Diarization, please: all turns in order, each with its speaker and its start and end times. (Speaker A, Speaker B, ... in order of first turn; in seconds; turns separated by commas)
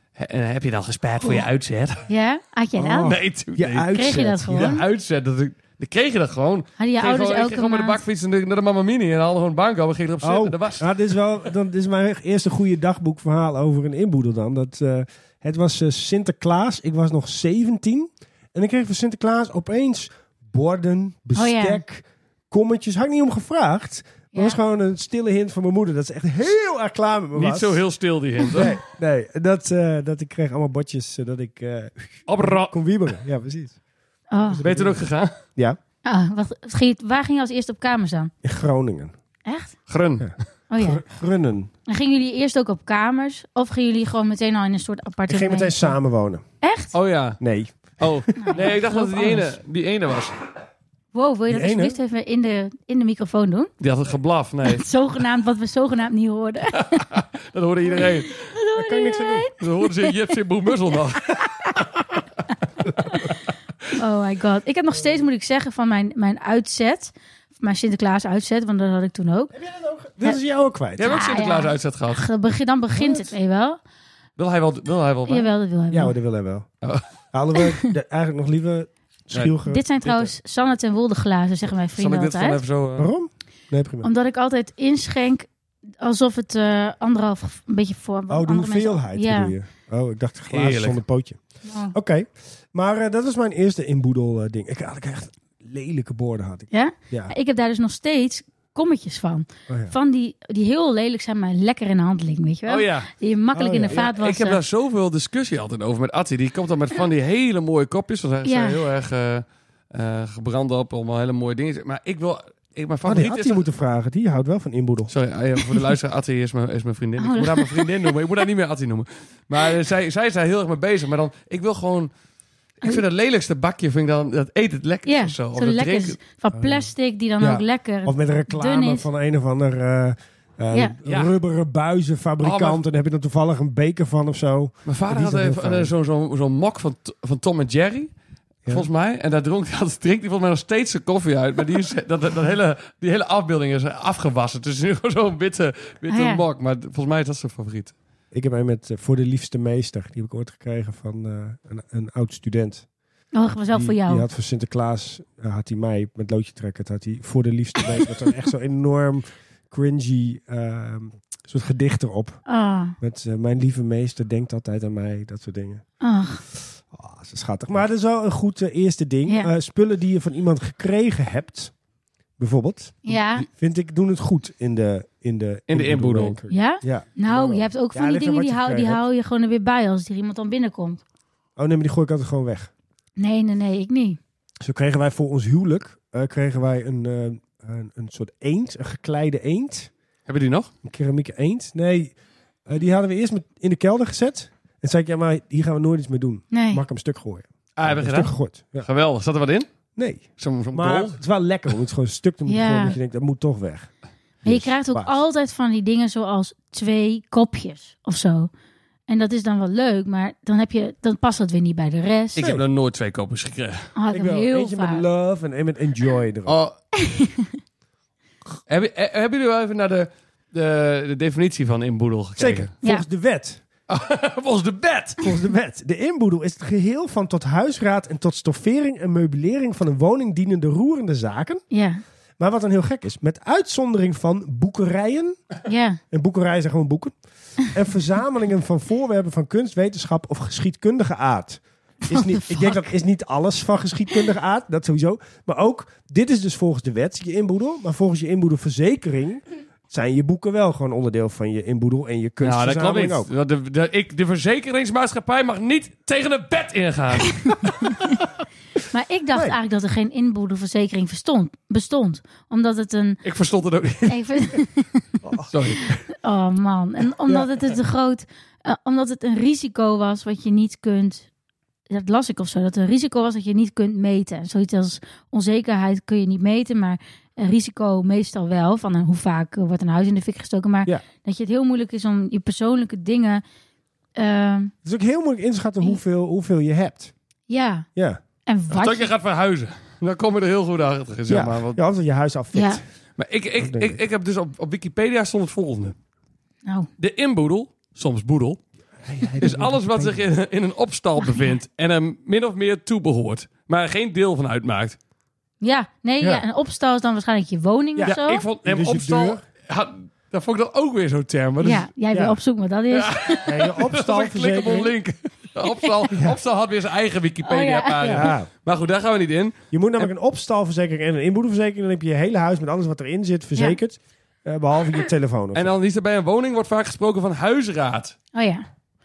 Speaker A: 0.2-2.0, Speaker B: 2.1-3.2, Speaker C: 2.8-4.7, Speaker A: 3.0-10.9, Speaker B: 3.9-4.8, Speaker B: 6.8-8.0, Speaker C: 10.2-27.8, Speaker B: 21.4-21.8, Speaker A: 27.3-28.8, Speaker C: 28.5-33.8, Speaker A: 32.3-32.8, Speaker B: 34.3-34.6, Speaker C: 34.5-35.0, Speaker A: 34.6-35.4, Speaker B: 36.0-38.3, Speaker C: 38.4-39.1, Speaker B: 39.5-39.8, Speaker A: 39.9-40.3, Speaker C: 40.2-41.7, Speaker B: 40.7-41.0, Speaker B: 41.9-45.9, Speaker C: 45.3-46.4, Speaker B: 46.6-46.9, Speaker A: 46.9-47.4, Speaker C: 47.4-48.6, Speaker A: 48.0-50.4, Speaker B: 48.4-49.5, Speaker B: 51.1-53.7, Speaker C: 51.5-52.0, Speaker A: 53.8-54.8, Speaker B: 54.6-57.1, Speaker A: 56.7-58.4, Speaker B: 58.0-60.1, Speaker C: 58.7-59.5, Speaker A: 59.6-61.4, Speaker B: 61.4-61.8, Speaker B: 63.9-69.5, Speaker C: 69.5-71.1, Speaker A: 71.0-72.2, Speaker B: 71.0-73.8, Speaker C: 73.0-73.3, Speaker A: 74.4-75.5, Speaker B: 75.3-76.1, Speaker C: 75.9-76.7, Speaker C: 77.3-79.8, Speaker A: 79.3-80.3, Speaker B: 79.7-82.6, Speaker A: 81.9-83.1, Speaker C: 83.0-84.1, Speaker B: 84.0-85.5, Speaker B: 86.0-89.5, Speaker C: 88.3-91.4, Speaker A: 90.5-91.0, Speaker B: 91.7-92.0, Speaker C: 91.9-97.3, Speaker B: 96.7-104.6, Speaker C: 99.7-99.9, Speaker A: 102.7-103.1, Speaker C: 103.5-104.0, Speaker A: 103.9-113.6, Speaker B: 108.4-108.8, Speaker C: 113.0-115.1, Speaker A: 115.1-122.1, Speaker B: 117.2-117.9, Speaker A: 122.8-126.2, Speaker B: 125.0-129.1, Speaker C: 126.5-135.9, Speaker A: 131.0-131.3, Speaker A: 132.4-132.8, Speaker A: 134.8-138.1, Speaker A: 138.7-147.9, Speaker B: 146.1-146.4, Speaker C: 148.3-152.9, Speaker B: 153.3-154.2, Speaker C: 153.7-162.4, Speaker B: 162.5-162.9, Speaker C: 163.0-165.8, Speaker B: 166.0-166.4, Speaker C: 166.9-171.7, Speaker C: 172.4-179.0, Speaker B: 173.0-173.4, Speaker A: 175.7-176.4, Speaker B: 176.5-181.0, Speaker C: 181.6-182.7, Speaker B: 183.2-184.2, Speaker C: 184.6-189.9, Speaker A: 190.3-190.7, Speaker C: 190.8-192.1, Speaker C: 192.7-198.9, Speaker B: 196.5-196.8, Speaker A: 197.8-199.7, Speaker C: 199.9-203.9, Speaker A: 200.4-201.2, Speaker B: 202.5-203.0, Speaker C: 204.4-205.2, Speaker B: 204.4-208.5, Speaker B: 209.1-212.4, Speaker A: 212.3-213.9, Speaker C: 212.4-212.6, Speaker B: 213.9-215.0, Speaker C: 214.1-216.6, Speaker A: 216.4-216.8, Speaker B: 216.9-217.5, Speaker A: 218.7-222.7, Speaker C: 222.4-223.6, Speaker A: 223.9-225.2, Speaker C: 225.2-231.6, Speaker B: 231.7-232.0, Speaker C: 232.4-235.4, Speaker B: 235.7-236.0, Speaker C: 236.1-253.3, Speaker B: 242.1-242.8, Speaker A: 252.4-257.4, Speaker B: 257.9-258.1, Speaker B: 258.9-263.2, Speaker A: 263.2-264.2, Speaker B: 264.1-265.0, Speaker C: 265.2-266.0, Speaker A: 265.5-265.9, Speaker B: 266.1-271.3, Speaker B: 271.9-283.4, Speaker B: 284.1-284.7, Speaker C: 284.8-287.1, Speaker B: 287.5-287.9, Speaker B: 288.5-289.1, Speaker A: 288.7-291.8, Speaker C: 291.3-292.8, Speaker B: 292.5-292.8, Speaker A: 293.2-295.9, Speaker C: 293.6-294.0, Speaker A: 297.0-298.6, Speaker C: 299.0-300.2, Speaker A: 299.4-305.0, Speaker B: 301.2-301.5, Speaker B: 305.6-308.4, Speaker C: 307.9-309.4, Speaker A: 308.1-311.9, Speaker B: 311.6-313.6, Speaker C: 312.1-312.4, Speaker A: 312.9-320.1, Speaker C: 313.4-314.9, Speaker C: 316.1-316.4, Speaker B: 317.4-318.3, Speaker C: 318.0-318.5, Speaker C: 319.7-325.7, Speaker A: 325.5-328.1, Speaker B: 328.3-328.6